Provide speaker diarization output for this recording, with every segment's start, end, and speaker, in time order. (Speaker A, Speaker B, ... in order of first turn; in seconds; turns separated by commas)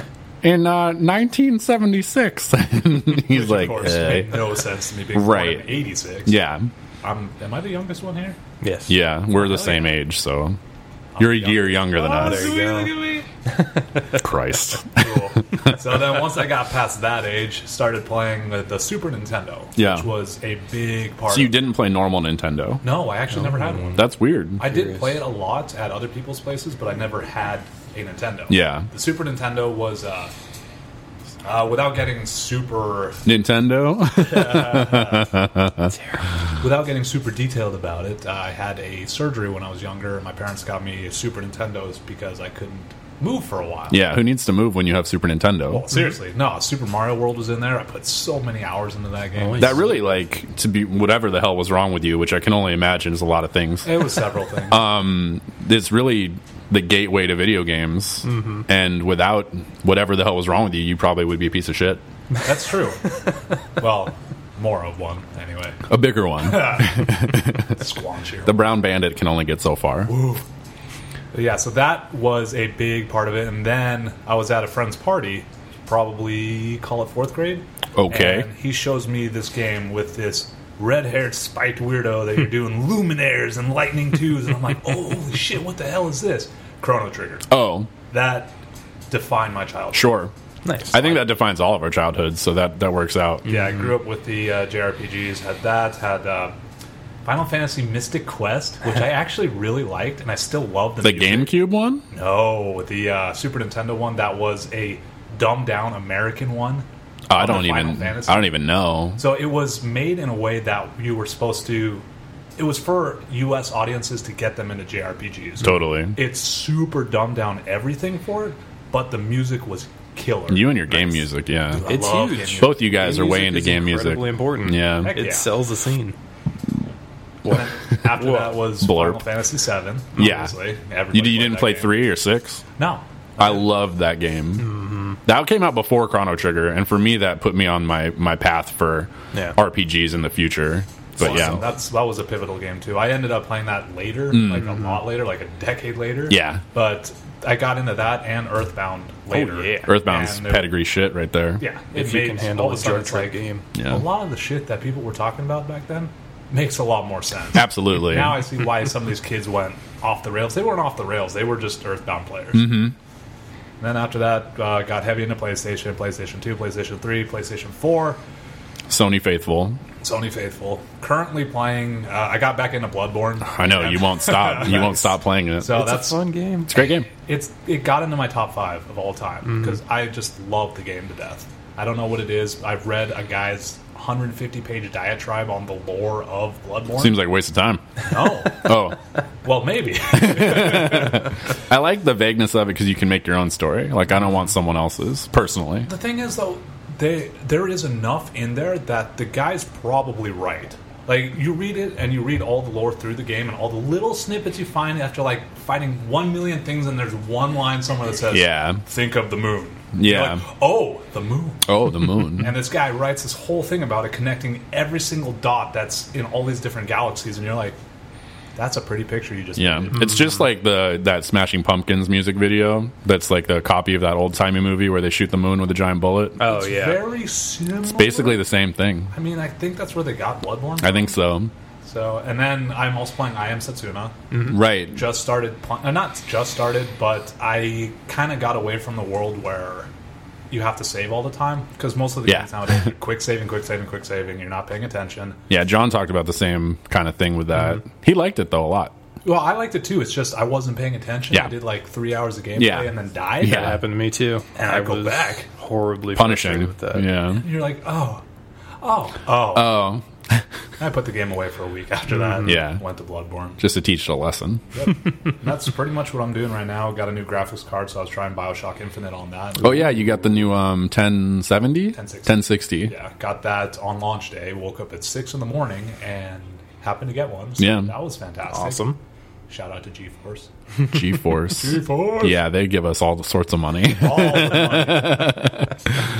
Speaker A: 0.4-4.4, Speaker B: 3.2-6.4, Speaker A: 5.1-6.7, Speaker B: 7.0-8.4, Speaker C: 8.6-9.9, Speaker A: 8.9-10.6, Speaker B: 11.2-13.3, Speaker A: 11.2-12.6, Speaker C: 12.1-13.0, Speaker A: 14.1-15.3, Speaker B: 14.9-21.6, Speaker A: 19.8-20.1, Speaker A: 21.3-22.8, Speaker B: 22.8-24.0, Speaker C: 23.5-23.9, Speaker A: 23.9-24.6, Speaker B: 24.6-30.3, Speaker C: 24.7-25.1, Speaker A: 28.5-28.9, Speaker B: 31.4-33.2, Speaker A: 33.2-35.9, Speaker B: 34.2-35.4, Speaker B: 36.6-44.0, Speaker A: 43.9-45.9, Speaker B: 45.7-50.0, Speaker C: 49.4-50.0, Speaker A: 49.6-54.0, Speaker B: 53.8-54.9, Speaker A: 54.7-62.0, Speaker C: 58.3-58.6, Speaker B: 62.4-63.2, Speaker B: 63.8-65.8, Speaker A: 65.9-67.8, Speaker B: 66.4-68.7, Speaker A: 68.5-70.2, Speaker B: 70.1-70.4, Speaker B: 71.3-87.5, Speaker A: 78.0-78.5, Speaker A: 87.5-87.9, Speaker B: 88.1-88.5, Speaker B: 89.1-90.2, Speaker A: 89.9-90.3, Speaker C: 90.6-91.2, Speaker A: 90.9-93.6, Speaker B: 93.5-96.5, Speaker B: 97.2-101.6, Speaker A: 101.0-102.0, Speaker B: 102.1-108.5, Speaker A: 107.3-109.2, Speaker B: 109.2-112.0, Speaker B: 112.6-122.9, Speaker A: 115.6-116.2, Speaker A: 120.5-122.0, Speaker C: 121.9-126.2, Speaker A: 122.5-125.2, Speaker B: 125.0-125.5, Speaker B: 127.5-132.0, Speaker C: 128.2-128.6, Speaker A: 128.8-129.2, Speaker A: 130.2-130.5, Speaker A: 131.1-132.6, Speaker B: 132.8-133.6, Speaker A: 133.4-141.7, Speaker C: 134.6-135.2, Speaker B: 141.2-150.7, Speaker C: 141.2-141.6, Speaker A: 144.3-144.7, Speaker C: 144.5-145.0, Speaker A: 146.3-146.6, Speaker C: 149.3-150.0, Speaker A: 149.9-151.6, Speaker B: 151.6-162.7, Speaker C: 151.9-153.7, Speaker A: 153.8-154.0, Speaker A: 157.5-158.4, Speaker A: 162.5-162.9, Speaker B: 163.8-168.2, Speaker A: 168.9-169.8, Speaker B: 170.0-176.2, Speaker A: 173.5-175.9, Speaker C: 175.6-176.8, Speaker A: 176.7-177.1, Speaker B: 176.8-187.2, Speaker C: 179.5-179.8, Speaker A: 186.9-188.0, Speaker B: 188.0-188.9, Speaker A: 188.5-189.0, Speaker B: 189.4-191.3, Speaker A: 190.1-195.9, Speaker B: 195.9-211.7, Speaker A: 208.3-208.8, Speaker A: 210.0-210.4, Speaker A: 211.7-212.6, Speaker B: 212.2-217.8, Speaker B: 218.6-220.3, Speaker A: 219.6-226.4, Speaker C: 226.4-227.1, Speaker B: 226.4-228.5, Speaker A: 227.8-229.1, Speaker B: 229.1-231.2, Speaker A: 230.8-231.5, Speaker B: 231.8-234.2, Speaker C: 234.3-234.6, Speaker A: 234.5-235.0, Speaker B: 234.8-239.9, Speaker B: 240.5-245.4, Speaker A: 245.5-248.9, Speaker B: 249.2-253.8, Speaker A: 251.3-251.6, Speaker A: 252.6-253.8, Speaker C: 253.4-257.1, Speaker B: 254.6-255.5, Speaker A: 256.1-257.4, Speaker B: 257.4-258.2, Speaker B: 258.8-259.9, Speaker A: 259.5-260.5, Speaker B: 260.8-263.6, Speaker C: 262.1-262.6, Speaker A: 262.4-262.8, Speaker A: 263.6-264.6, Speaker B: 264.7-269.9, Speaker A: 269.6-272.9, Speaker B: 271.9-278.9, Speaker A: 277.6-277.9, Speaker C: 278.5-279.0, Speaker B: 279.5-280.5, Speaker A: 280.9-286.0, Speaker B: 281.4-282.4, Speaker B: 283.9-285.6